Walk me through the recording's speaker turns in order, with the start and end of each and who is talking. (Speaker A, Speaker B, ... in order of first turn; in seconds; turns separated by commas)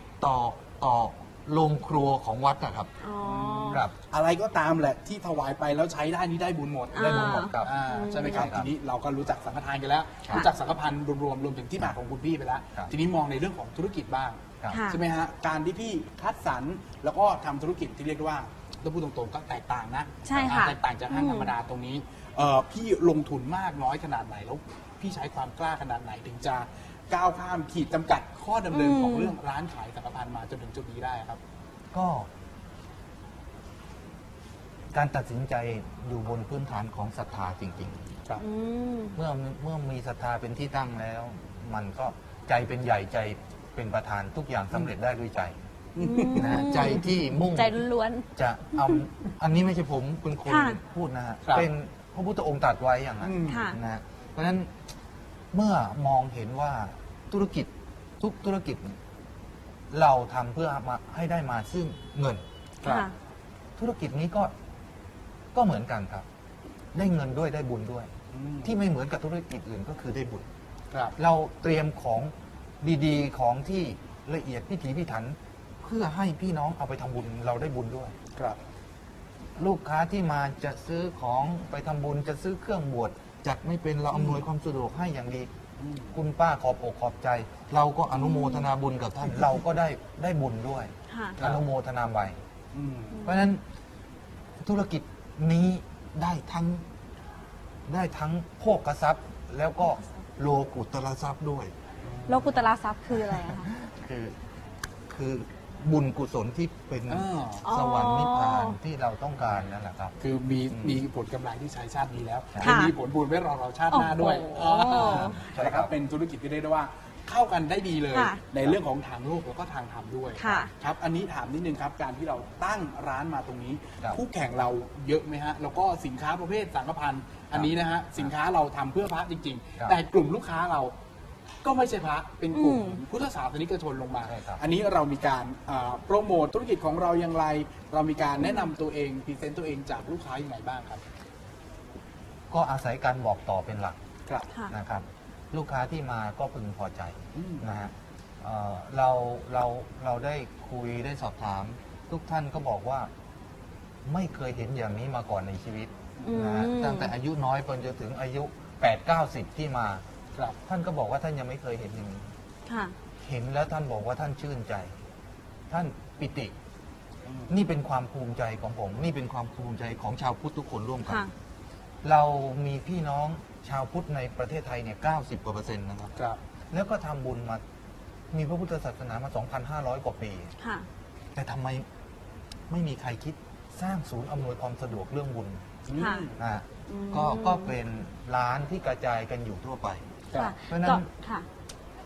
Speaker A: 0.2-2.9, Speaker B: 3.0-3.8, Speaker C: 3.2-31.4, Speaker B: 6.9-8.5, Speaker A: 7.0-8.7, Speaker B: 14.7-15.0, Speaker B: 20.2-21.5, Speaker B: 28.7-29.3, Speaker A: 31.9-32.3, Speaker A: 34.9-38.1, Speaker B: 38.4-39.2, Speaker A: 39.1-45.5, Speaker C: 46.0-47.0, Speaker B: 46.0-49.0, Speaker A: 46.3-47.8, Speaker A: 48.4-54.7, Speaker B: 50.5-50.8, Speaker C: 53.2-53.7, Speaker B: 53.4-53.8, Speaker A: 55.5-59.0, Speaker A: 59.9-62.4, Speaker B: 62.8-63.1, Speaker A: 63.8-64.5, Speaker A: 65.5-66.2, Speaker A: 66.9-68.1, Speaker C: 68.3-68.8, Speaker A: 68.6-70.5, Speaker A: 71.2-78.2, Speaker A: 79.6-85.5, Speaker C: 84.1-84.4, Speaker C: 85.8-86.2, Speaker A: 86.1-92.4, Speaker B: 88.2-88.7, Speaker B: 91.1-91.4, Speaker C: 91.4-91.6, Speaker C: 92.7-93.3, Speaker B: 93.2-93.5, Speaker A: 93.2-93.6, Speaker A: 94.6-96.8, Speaker A: 97.9-101.7, Speaker C: 102.0-102.7, Speaker B: 102.3-103.7, Speaker A: 103.2-104.4, Speaker A: 105.1-110.2, Speaker C: 107.1-107.7, Speaker B: 107.6-108.8, Speaker C: 110.2-130.9, Speaker A: 110.7-111.0, Speaker A: 112.5-112.8, Speaker B: 112.6-112.9, Speaker B: 113.9-115.3, Speaker A: 114.8-115.9, Speaker B: 118.1-118.4, Speaker B: 120.4-120.7, Speaker A: 127.5-128.3, Speaker C: 131.6-141.0, Speaker B: 132.5-133.0, Speaker A: 134.2-134.6, Speaker B: 138.4-138.7, Speaker A: 142.5-144.0, Speaker A: 144.7-153.1, Speaker C: 147.3-147.7, Speaker A: 154.0-160.0, Speaker B: 156.2-157.1, Speaker A: 160.7-162.3, Speaker B: 162.7-162.9, Speaker A: 163.2-164.9, Speaker A: 165.7-166.5, Speaker C: 167.2-167.5, Speaker A: 167.5-171.2, Speaker B: 171.0-171.3, Speaker A: 172.0-176.1, Speaker A: 176.7-177.6, Speaker A: 178.3-180.5, Speaker B: 180.6-180.8, Speaker A: 181.3-181.8, Speaker A: 182.7-185.7, Speaker C: 185.9-186.4, Speaker B: 185.9-186.3, Speaker A: 186.4-191.1, Speaker B: 186.9-187.7, Speaker B: 190.3-191.4